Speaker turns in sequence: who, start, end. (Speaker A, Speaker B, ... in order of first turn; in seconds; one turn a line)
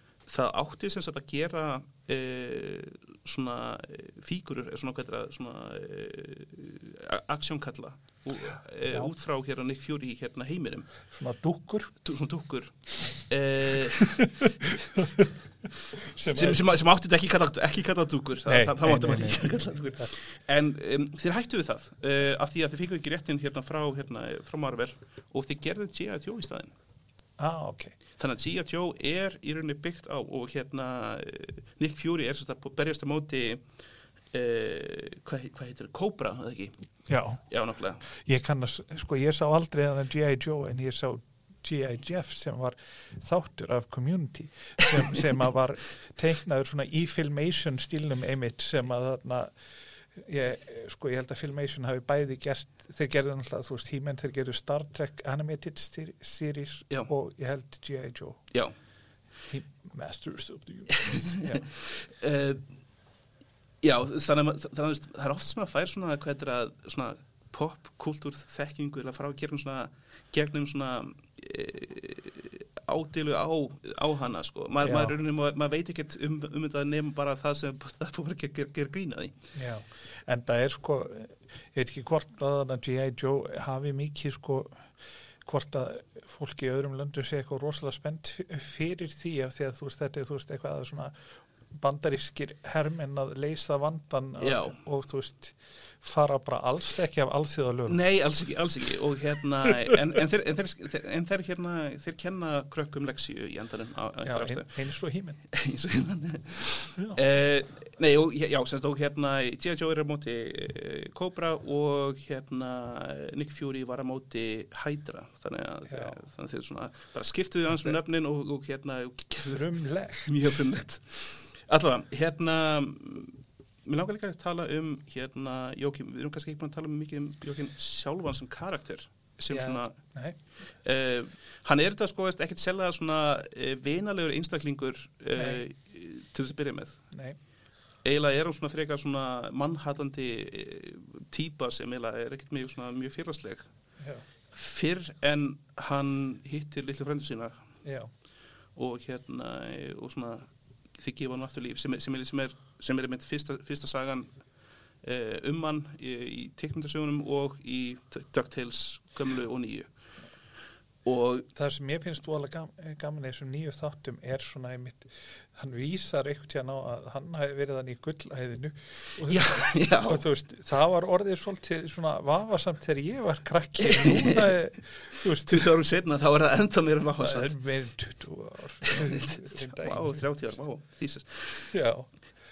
Speaker A: 0.3-10.9
Speaker B: 11.1-11.9
Speaker A: 12.0-14.7
Speaker B: 13.9-15.3
Speaker B: 15.9-16.6
Speaker A: 16.3-26.7
Speaker B: 18.5-20.1
Speaker B: 27.4-27.9
Speaker A: 28.2-33.6
Speaker A: 34.3-36.8
Speaker B: 37.1-37.4
Speaker A: 37.5-38.0
Speaker B: 38.1-49.5
Speaker B: 50.2-58.4
Speaker B: 59.5-61.6
Speaker A: 61.0-62.6
Speaker A: 63.8-79.3
Speaker B: 74.8-75.2
Speaker B: 79.6-84.8
Speaker B: 85.4-91.1
Speaker B: 91.7-98.0
Speaker A: 94.4-94.8
Speaker A: 97.9-104.7
Speaker B: 104.2-105.4
Speaker A: 105.5-119.7
Speaker B: 115.9-116.2
Speaker B: 119.5-120.6
Speaker A: 120.2-129.9
Speaker B: 129.5-130.4
Speaker A: 130.8-137.0
Speaker B: 135.4-135.6
Speaker B: 137.1-137.4
Speaker A: 138.1-143.7
Speaker A: 144.5-147.6
Speaker B: 147.8-148.1
Speaker A: 148.8-154.3
Speaker A: 155.0-159.9
Speaker A: 161.1-161.5
Speaker B: 161.6-175.8
Speaker A: 169.2-170.3
Speaker A: 173.8-174.6
Speaker A: 175.5-177.5
Speaker B: 177.2-180.2
Speaker A: 178.8-181.7
Speaker B: 181.7-182.1